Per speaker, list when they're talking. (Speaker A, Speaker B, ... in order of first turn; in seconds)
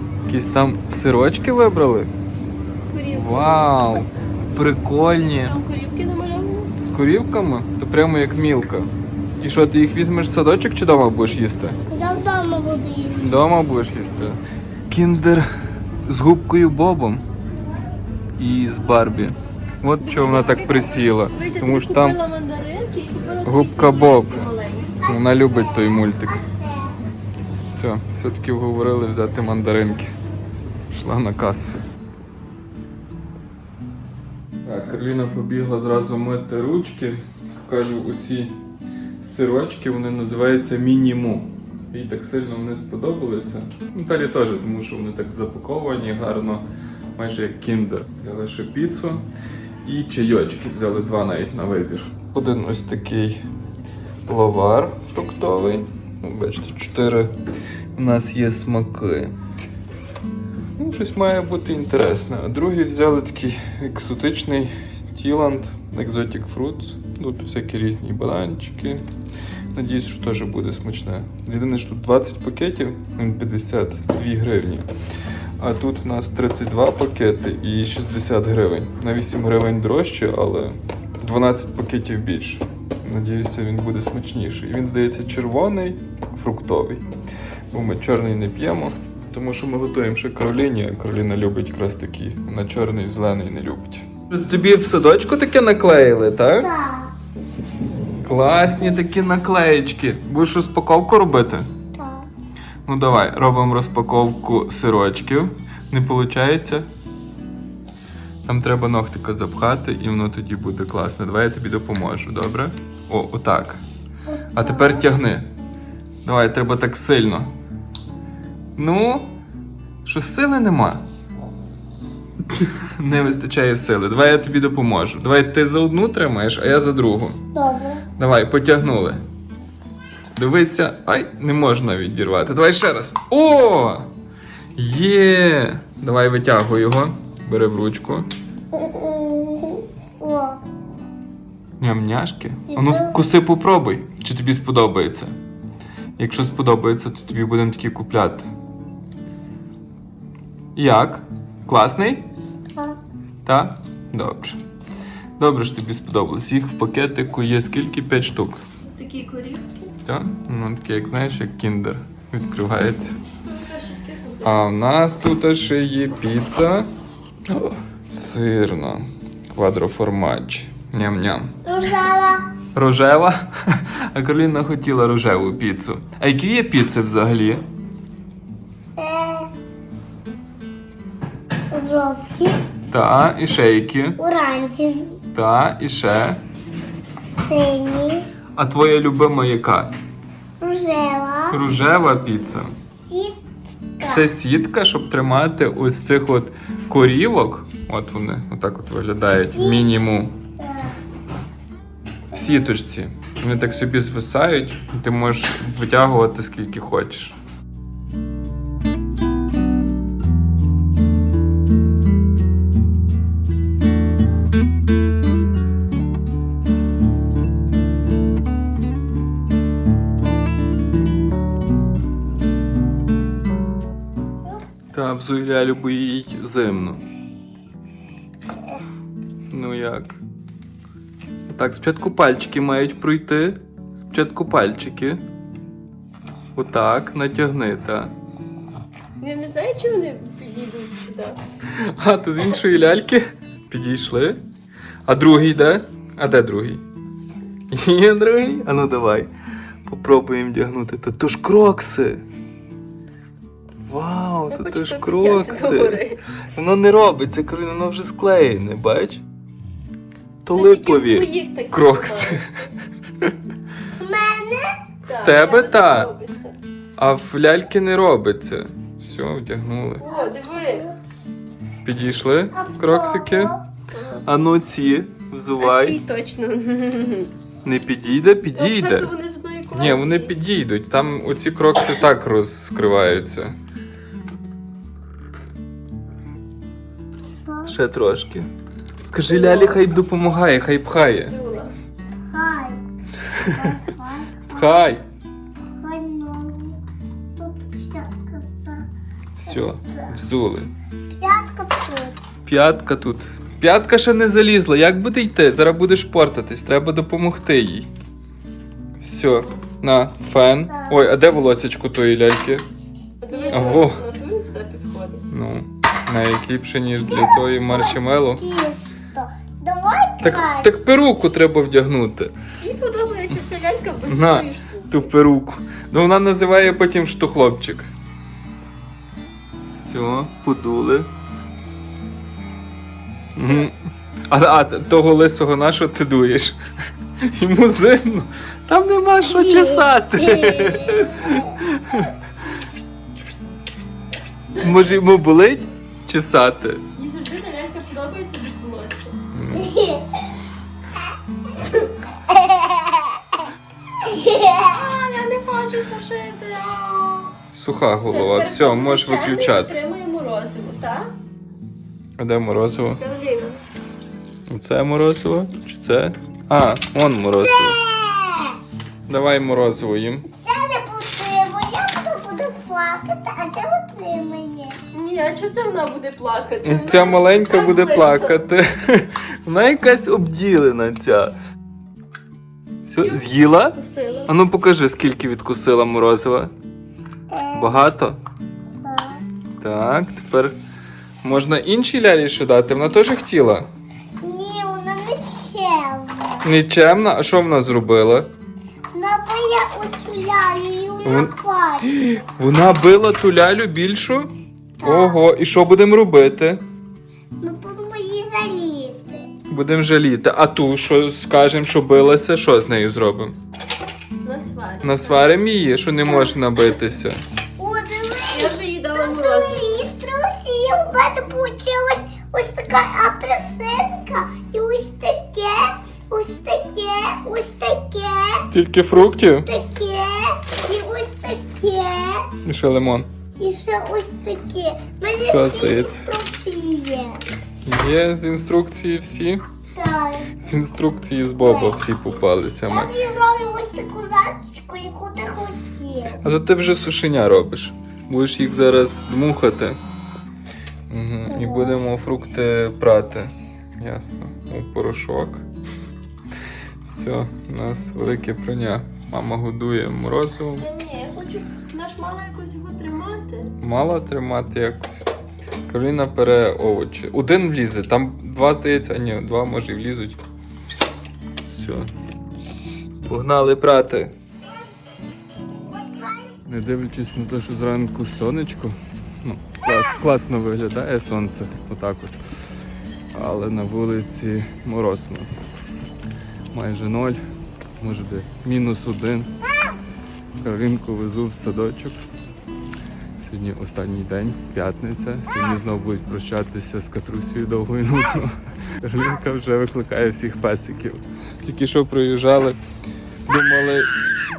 Speaker A: 0.3-2.1, 3.1-5.6, 6.8-11.8, 13.2-15.5, 16.1-17.2, 18.4-22.2, 23.4-26.4, 27.7-30.1, 30.9-31.8, 34.6-38.5, 39.2-46.6, 47.2-49.2, 49.8-53.4, 54.3-57.3, 58.0-59.3, 60.8-69.0, 69.7-74.9, 75.6-87.0, 87.7-96.7, 98.2-101.7, 102.8-106.9, 108.5-113.8, 114.5-115.5, 116.2-117.5, 118.8-119.3, 120.0-121.0, 122.5-127.4, 128.2-129.2, 130.3-134.1, 134.8-138.3, 141.8-145.3, 146.2-148.5, 150.8-152.3, 153.4-154.6, 155.4-158.6, 160.1-163.2, 164.4-166.9, 167.5-171.6, 172.7-177.6, 182.9-184.2, 185.3-186.4, 188.6-189.9, 191.5-192.7, 194.1-200.4, 202.3-207.4, 224.9-227.0, 229.5-230.2, 231.5-235.2, 236.6-238.1, 241.7-244.4, 245.1-246.8, 247.7-249.3, 249.8-252.2, 253.9-259.2, 260.4-262.5, 265.1-266.1, 267.0-270.1, 271.8-273.6, 274.2-276.0, 277.6-279.1, 279.7-283.6, 287.7-288.5, 289.1-291.4, 293.3-293.7, 294.5-295.0, 299.4-300.7, 302.4-307.9, 309.0-312.6, 313.5-314.0, 315.3-318.4, 320.2-322.3, 324.1-327.9, 329.7-331.1, 333.4-333.8, 334.3-336.6, 337.2-342.1, 344.6-346.8, 349.3-349.7, 357.5-359.8, 362.2-363.0, 364.5-367.8, 369.1-370.2, 376.6-381.4, 382.8-386.5, 387.6-388.2, 389.6-390.6, 391.2-393.7, 396.4-398.3, 401.0-404.3, 404.8-406.6, 409.5-413.4, 414.8-417.2, 428.4-429.5, 432.4-433.1, 435.3-436.1, 437.6-439.4, 440.4-442.9, 446.2-449.8, 450.9-455.4, 456.8-460.7, 463.6-465.1, 465.7-470.2, 471.4-471.9, 473.1-474.1, 476.4-482.2, 483.1-485.4, 486.5-487.2, 487.8-489.3, 490.4-492.0, 493.2-502.6, 503.3-503.9
Speaker B: 2.8-4.0, 5.4-6.7, 20.0-25.0, 158.9-159.9, 163.5-164.7, 239.2-241.4, 254.5-256.2, 260.5-262.7, 265.1-266.6, 270.0-270.9, 273.9-274.4, 275.6-277.3, 278.6-280.4, 289.3-289.8, 290.8-291.7, 313.2-315.3, 322.6-325.1, 346.9-349.2, 354.7-357.3, 358.0-361.1, 363.0-363.6, 374.9-378.4, 383.0-384.3, 414.2-415.4, 418.3-419.9, 460.6-463.5
Speaker C: 11.9-13.3, 25.0-27.0, 96.6-97.1, 102.0-102.3, 114.3-115.1, 127.5-128.1, 138.7-140.6, 142.7-143.2, 171.7-172.4, 179.0-179.5, 181.7-182.6, 184.2-185.2, 187.2-188.3, 190.6-191.6, 193.1-193.4, 194.0-194.3, 199.5-199.9, 200.6-201.0, 264.0-264.7, 272.5-273.6, 287.5-287.7, 292.3-292.8, 293.6-294.9, 295.8-296.8, 297.4-298.8, 301.2-302.2, 310.7-311.1, 313.3-313.8, 317.1-320.8, 339.4-341.5, 349.6-350.1, 352.3-353.1, 354.0-354.8, 367.4-368.6, 370.3-374.8, 387.3-387.8, 388.8-389.2, 394.2-396.5, 398.9-402.0, 404.8-405.3, 407.4-409.2, 416.1-416.4, 417.6-432.3, 433.4-437.2, 439.8-440.3, 441.4-441.8, 442.7-446.2, 451.3-451.8, 475.8-476.1